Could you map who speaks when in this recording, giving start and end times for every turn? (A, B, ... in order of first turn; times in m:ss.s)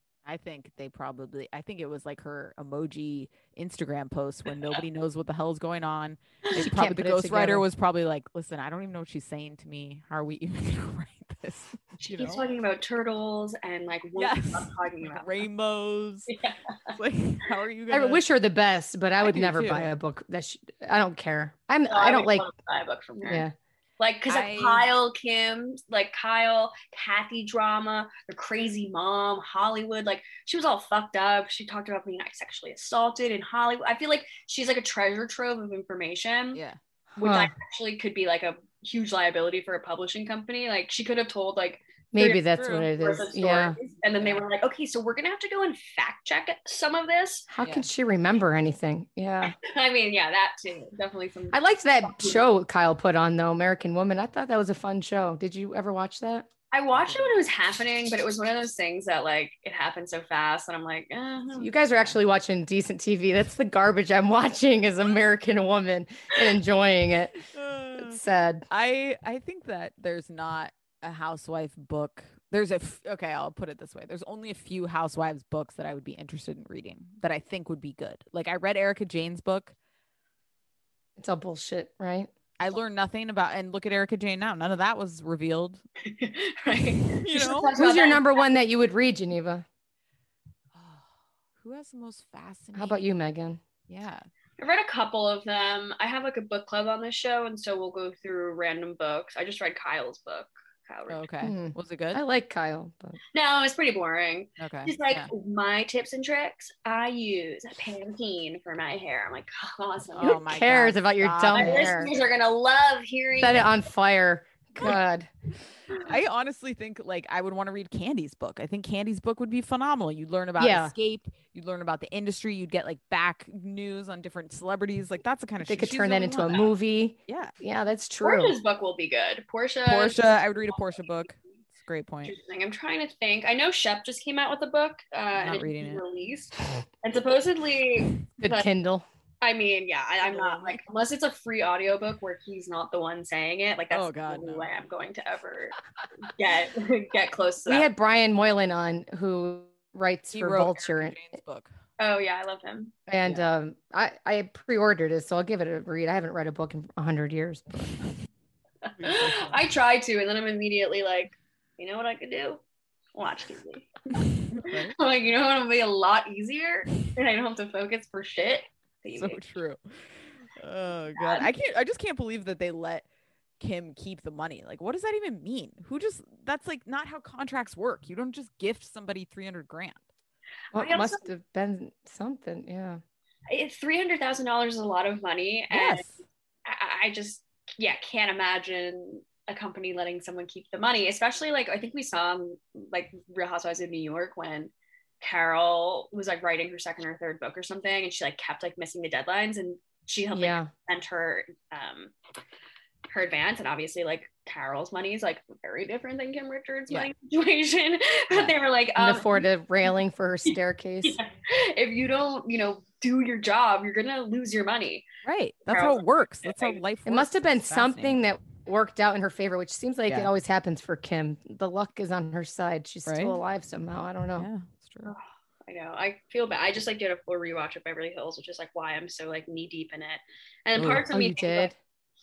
0:00.2-0:12.4 A
0:06.6-0:07.6 B
0:12.0-0:15.4 C
0:14.2-0:16.3 A
0:16.3-0:16.6 C
0:16.9-0:18.2 A
0:17.9-0:22.5 B
0:19.2-0:19.9 A
0:21.9-0:23.4 C
0:23.2-0:23.5 B
0:24.0-0:36.6 C
0:24.3-0:24.9 A
0:37.2-0:37.5 B
0:37.2-0:42.4 C
0:42.1-0:43.8 B
0:42.5-0:42.9 A
0:43.0-0:47.5 C
0:47.5-0:49.6 B
0:47.6-0:47.9 A
0:49.4-0:52.5 C
0:51.5-0:56.5 B
0:56.7-1:01.7 C
0:56.9-0:57.3 A
1:01.6-1:07.4 B
1:07.5-1:19.7 A
1:08.0-1:08.6 B
1:21.2-1:22.3 B
1:22.6-1:25.8 A
1:26.0-1:28.2 C
1:27.1-1:27.7 A
1:27.7-1:29.6 B
1:30.7-1:31.1 A
1:31.6-1:33.1 A
1:32.7-1:33.6 B
1:33.9-1:34.3 A
1:34.6-1:41.2 C
1:41.1-1:42.2 A
1:41.4-1:43.2 B
1:43.3-1:50.4 C
1:44.6-1:45.3 A
1:50.1-1:52.0 A
1:50.2-1:52.1 B
1:51.5-1:53.7 C
1:53.4-1:55.3 B
1:55.9-2:06.6 A
2:00.6-2:00.9 B
2:05.6-2:08.6 B
2:07.3-2:07.5 A
2:08.2-2:10.7 C
2:09.9-2:12.3 A
2:12.2-2:18.7 C
2:15.4-2:16.0 A
2:18.4-2:19.0 B
2:19.4-2:27.9 C
2:20.2-2:20.8 A
2:23.9-2:24.7 A
2:27.7-2:31.2 B
2:30.3-2:31.7 A
2:32.0-2:32.9 C
2:33.1-2:38.1 B
2:39.0-2:39.6 A
2:39.0-2:42.6 C
2:43.1-2:49.4 C
2:44.5-2:44.9 A
2:49.1-2:53.0 A
2:51.2-2:51.5 C
2:53.6-3:00.0 A
3:00.7-3:03.0 B
3:00.7-3:01.2 C
3:03.5-3:06.0 C
3:05.7-3:06.2 A
3:06.6-3:22.1 C
3:20.3-3:20.7 B
3:23.1-3:29.4 C
3:29.0-3:31.2 B
3:30.5-3:35.0 C
3:35.2-3:38.2 A
3:35.7-3:36.8 C
3:37.0-3:44.5 B
3:43.0-3:43.4 A
3:44.4-3:45.1 A
3:45.0-3:51.7 C
3:50.8-3:51.1 A
3:51.1-3:51.8 B